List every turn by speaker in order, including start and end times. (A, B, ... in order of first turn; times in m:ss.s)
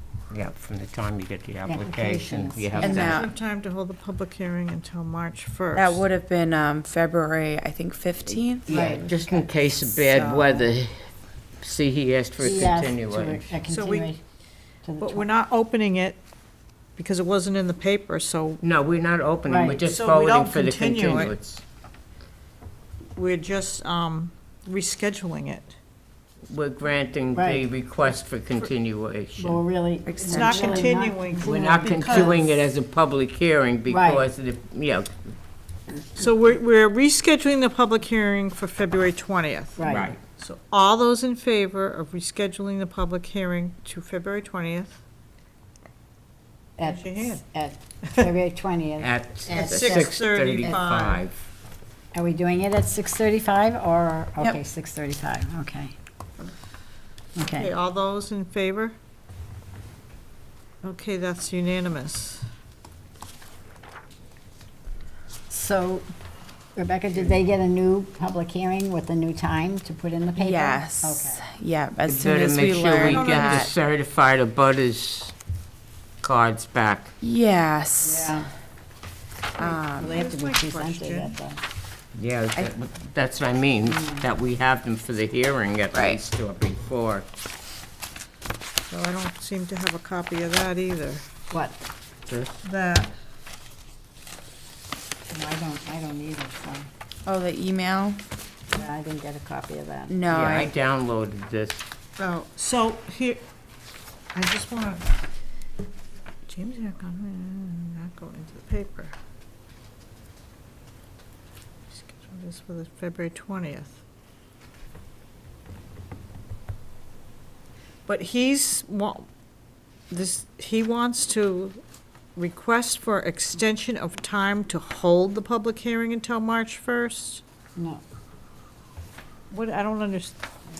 0:00.3-0:03.2 A
0:01.6-0:03.1 B
0:02.8-0:03.3 C
0:03.0-0:06.0 D
0:05.7-0:08.8 C
0:08.3-0:13.5 A
0:08.7-0:10.6 B
0:12.4-0:14.2 B
0:13.7-0:14.2 D
0:14.8-0:15.2 B
0:15.0-0:16.2 D
0:17.0-0:18.6 D
0:18.6-0:21.6 A
0:19.5-0:19.8 B
0:19.8-0:21.4 D
0:23.1-0:25.7 D
0:26.5-0:29.6 A
0:27.3-0:27.6 B
0:29.4-0:32.4 B
0:30.0-0:30.9 C
0:30.3-0:32.6 D
0:31.4-0:35.3 A
0:33.9-0:34.2 B
0:36.2-0:45.0 D
0:39.8-0:40.1 B
0:39.9-0:40.2 A
0:46.8-0:50.9 B
0:46.8-0:47.4 D
0:49.0-0:51.4 A
0:49.5-0:51.3 D
0:52.1-0:55.9 B
0:57.4-0:57.7 B
0:57.6-0:59.0 D
1:00.8-1:02.5 D
1:05.5-1:06.1 B
1:06.8-1:11.4 B
1:10.4-1:13.7 C
1:12.0-1:15.3 A
1:13.1-1:13.7 D
1:16.2-1:17.1 A
1:17.2-1:18.4 C
1:18.0-1:18.5 B
1:19.6-1:20.2 C
1:19.6-1:21.4 D
1:19.9-1:21.6 B
1:22.1-1:27.3 A
1:23.9-1:24.2 B
1:25.9-1:26.2 C
1:28.9-1:31.2 D
1:31.5-1:31.8 B
1:32.3-1:32.5 A
1:32.6-1:33.1 D
1:35.3-1:36.9 B
1:37.2-1:38.2 C
1:38.7-1:40.1 B
1:40.1-1:40.7 C
1:40.3-1:41.8 A
1:42.2-1:43.4 D
1:44.3-1:45.0 D
1:46.5-1:49.1 D
1:51.9-1:54.0 D
1:58.1-1:59.3 D
2:00.1-2:01.8 D
2:02.4-2:07.4 D
2:07.8-2:08.0 B
2:09.5-2:10.4 D